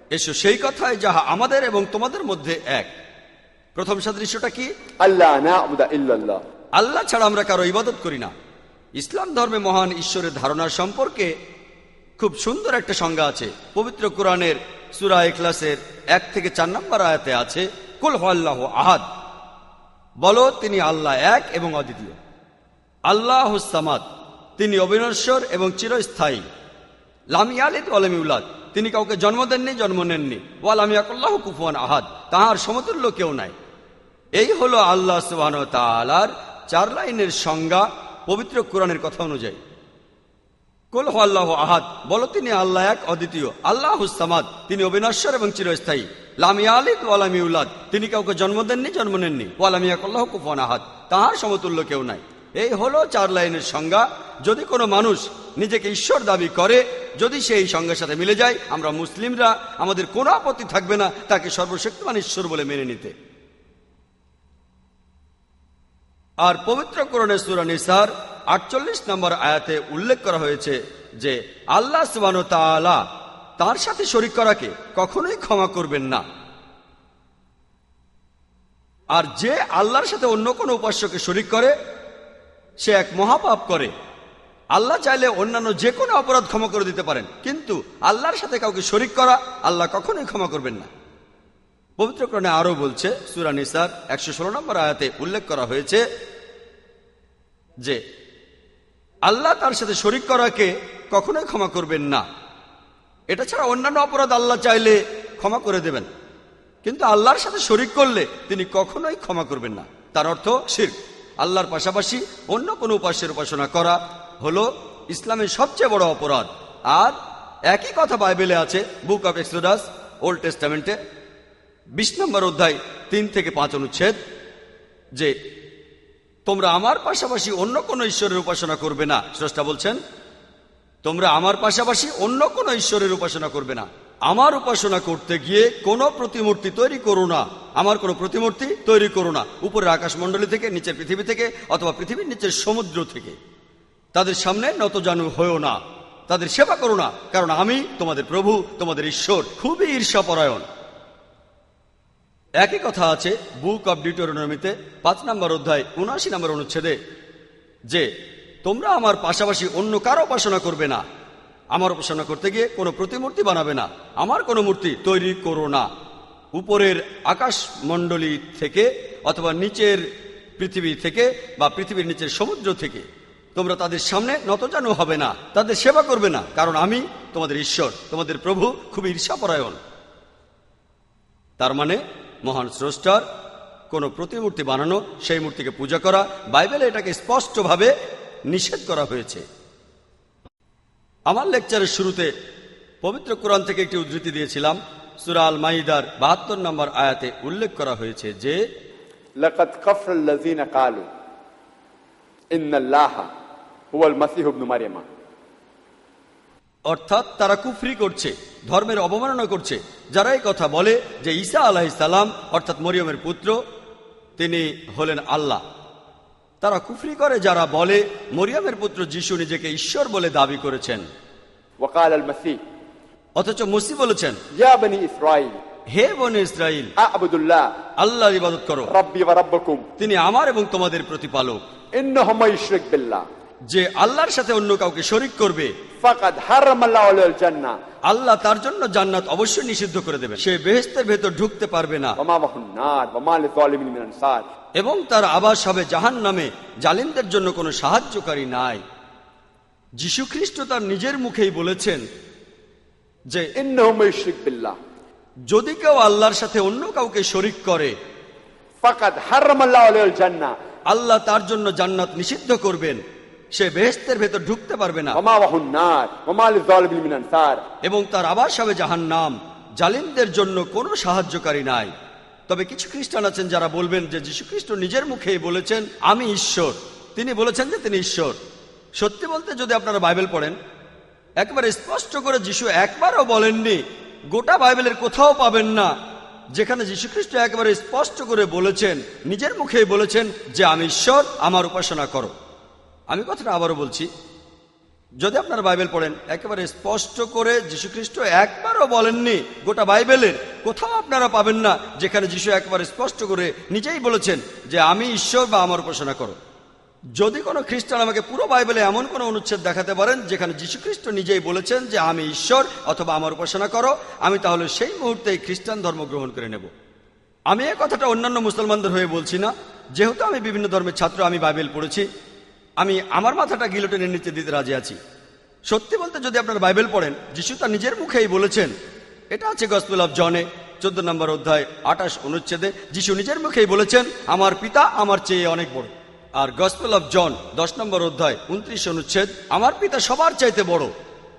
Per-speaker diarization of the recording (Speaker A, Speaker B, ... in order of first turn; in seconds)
Speaker A: 0.1-2.9, 3.8-4.7, 6.8-8.3, 9.0-11.3, 12.2-19.1, 20.2-22.2, 23.1-24.0, 24.6-26.4, 27.3-33.5, 34.4-39.6, 40.9-63.1, 66.4-73.0, 73.6-76.2, 79.1-81.7, 82.8-83.9, 84.7-90.9, 92.0-96.0, 99.3-102.2, 103.3-106.1, 106.8-117.2, 117.7-121.0, 122.0-124.2, 126.5-130.0, 131.0-143.4, 144.2-150.7, 152.6-157.0, 158.6-161.0, 161.7-165.9, 166.6-170.0, 170.6-179.8, 181.6-183.2, 183.9-187.9, 188.5-189.4, 191.3-192.3, 193.0-198.6, 206.9-213.6, 214.4-215.6, 216.6-221.1, 223.4-224.4, 225.9-226.9, 228.0-228.9, 230.0-231.6, 233.7-235.7, 238.1-242.2, 244.8-248.8, 250.0-252.0, 255.5-257.9, 260.9-263.0, 263.6-265.2, 267.8-271.9, 272.5-278.4, 279.0-280.6, 281.4-285.9, 286.6-292.3, 293.1-294.1, 295.2-306.4, 307.2-316.7, 317.5-322.1, 322.8-325.0, 325.7-328.7, 329.3-340.9
Speaker B: 5.0-6.4, 199.4-201.1, 202.5-203.3, 203.9-205.1, 221.8-222.6, 224.6-225.5, 227.0-227.7, 228.9-229.8, 232.0-233.2, 236.0-237.8, 242.2-244.4, 253.6-254.8, 258.8-260.5, 265.1-267.6